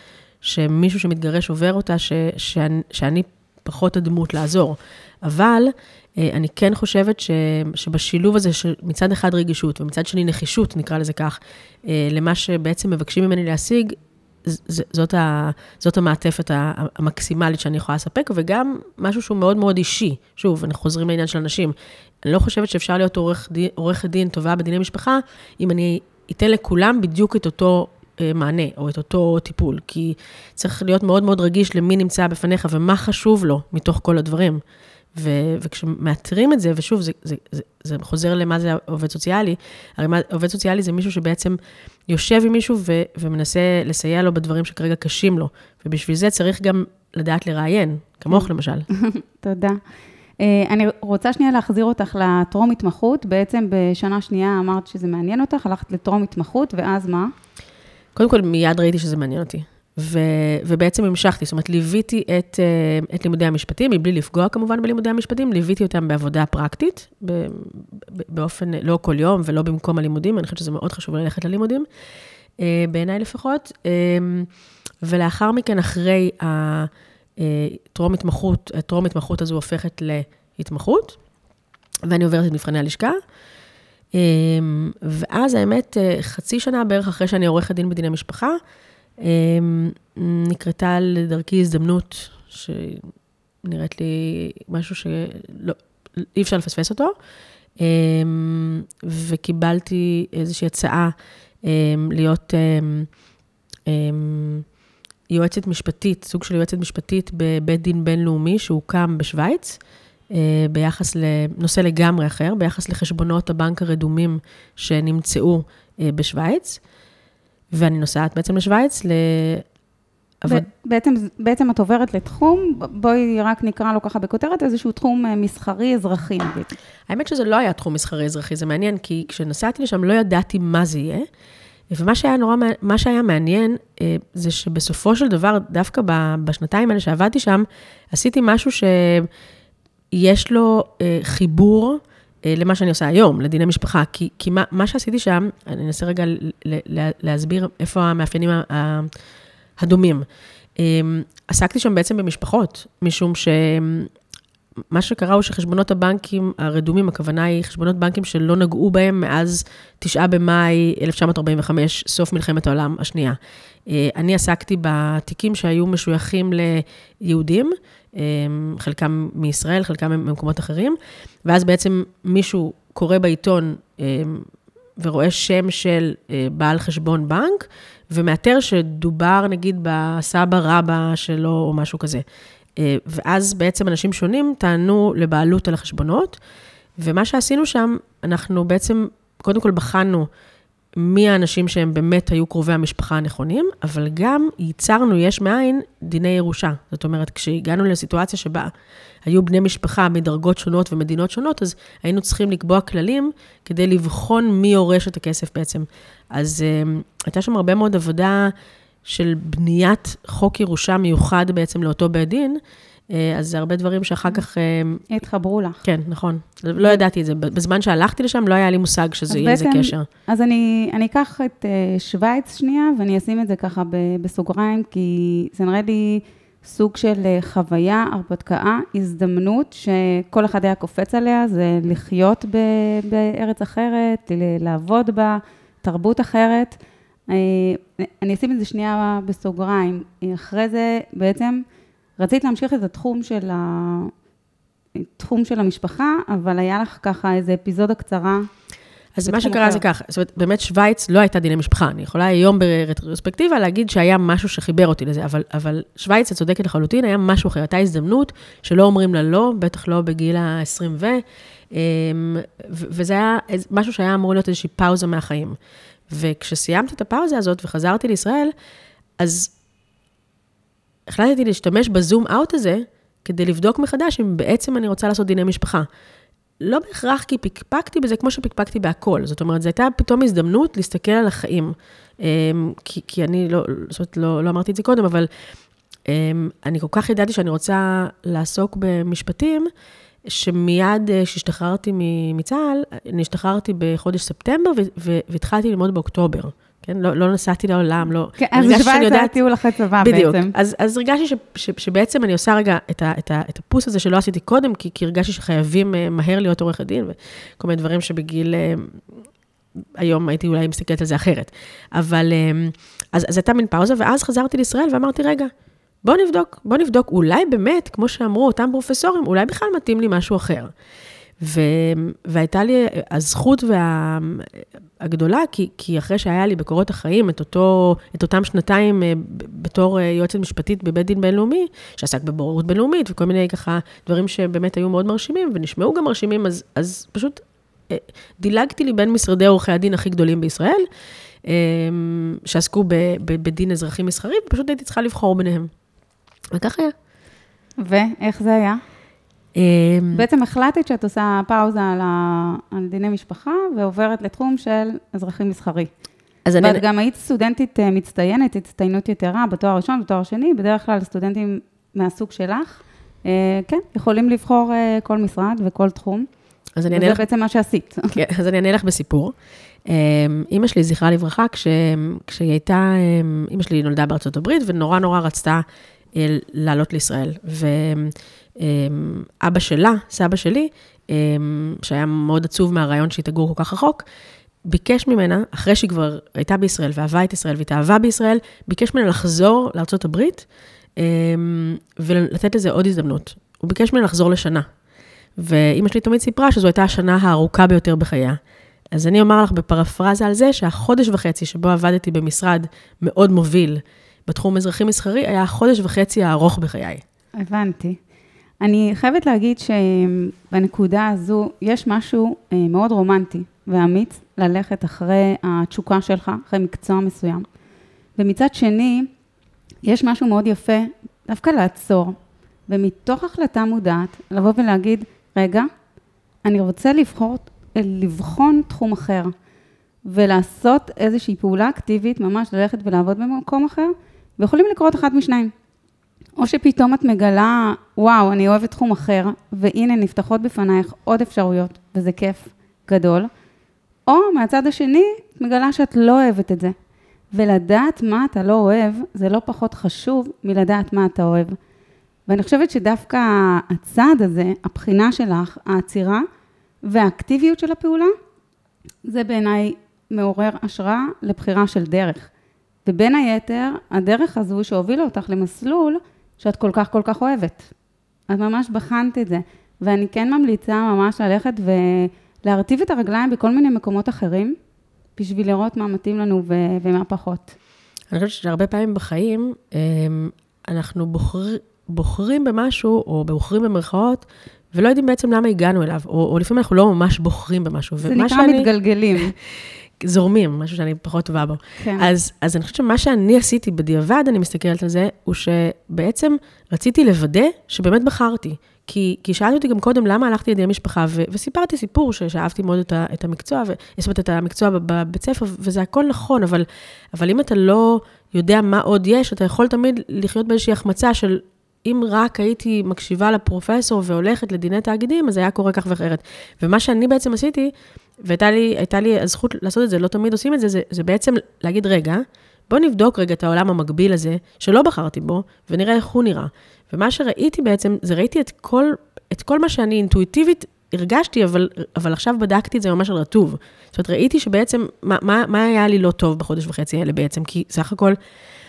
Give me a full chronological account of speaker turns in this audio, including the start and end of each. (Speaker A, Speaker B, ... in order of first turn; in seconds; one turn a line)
Speaker A: 0.4-34.6
Speaker A: 35.1-48.9
Speaker B: 49.0-49.8
Speaker B: 50.4-57.3
Speaker A: 58.1-71.9
Speaker A: 72.6-74.5
Speaker A: 75.0-81.2
Speaker A: 82.0-83.2
Speaker A: 84.1-88.6
Speaker A: 89.2-93.1
Speaker A: 93.6-97.1
Speaker A: 97.8-103.1
Speaker A: 103.9-104.7
Speaker A: 105.3-109.8
Speaker A: 110.3-116.8
Speaker A: 117.7-119.6
Speaker B: 120.5-126.7
Speaker A: 127.1-131.3
Speaker A: 131.9-139.3
Speaker A: 140.1-149.1
Speaker A: 149.8-150.2
Speaker A: 150.8-154.1
Speaker A: 154.9-182.2
Speaker A: 182.8-186.4
Speaker A: 187.0-190.3
Speaker A: 191.0-198.7
Speaker A: 199.2-208.5
Speaker A: 209.0-212.6
Speaker A: 213.1-215.0
Speaker B: 215.1-215.8
Speaker A: 215.8-220.1
Speaker B: 219.3-236.8
Speaker B: 237.3-241.6
Speaker B: 242.2-244.1
Speaker B: 244.9-248.5
Speaker A: 249.2-265.6
Speaker B: 249.3-249.8
Speaker A: 266.1-268.5
Speaker A: 269.2-269.5
Speaker A: 271.1-275.9
Speaker A: 276.6-285.3
Speaker A: 286.1-289.7
Speaker A: 290.2-299.4
Speaker B: 298.4-300.5
Speaker A: 300.0-309.2
Speaker A: 310.0-315.5
Speaker A: 316.0-320.7
Speaker A: 321.4-340.9
Speaker A: 341.4-345.7
Speaker A: 346.5-346.9
Speaker B: 347.8-348.8
Speaker A: 349.5-350.3
Speaker B: 350.1-355.9
Speaker A: 356.4-356.8
Speaker B: 356.6-366.3
Speaker A: 366.8-367.2
Speaker B: 366.9-368.2
Speaker A: 368.1-369.3
Speaker A: 369.9-375.6
Speaker A: 376.1-384.0
Speaker A: 384.7-390.4
Speaker A: 391.0-394.7
Speaker A: 395.4-398.4
Speaker A: 398.9-407.0
Speaker B: 407.4-408.0
Speaker B: 408.6-417.5
Speaker B: 418.2-419.1
Speaker B: 419.8-425.7
Speaker B: 426.4-429.3
Speaker B: 430.1-435.5
Speaker B: 436.4-443.3
Speaker B: 444.1-446.7
Speaker B: 447.3-451.6
Speaker B: 452.3-456.2
Speaker B: 456.8-458.1
Speaker B: 459.0-462.3
Speaker B: 462.9-467.7
Speaker B: 468.3-474.6
Speaker B: 475.2-477.6
Speaker A: 478.1-538.1
Speaker B: 488.0-489.3
Speaker B: 491.8-492.1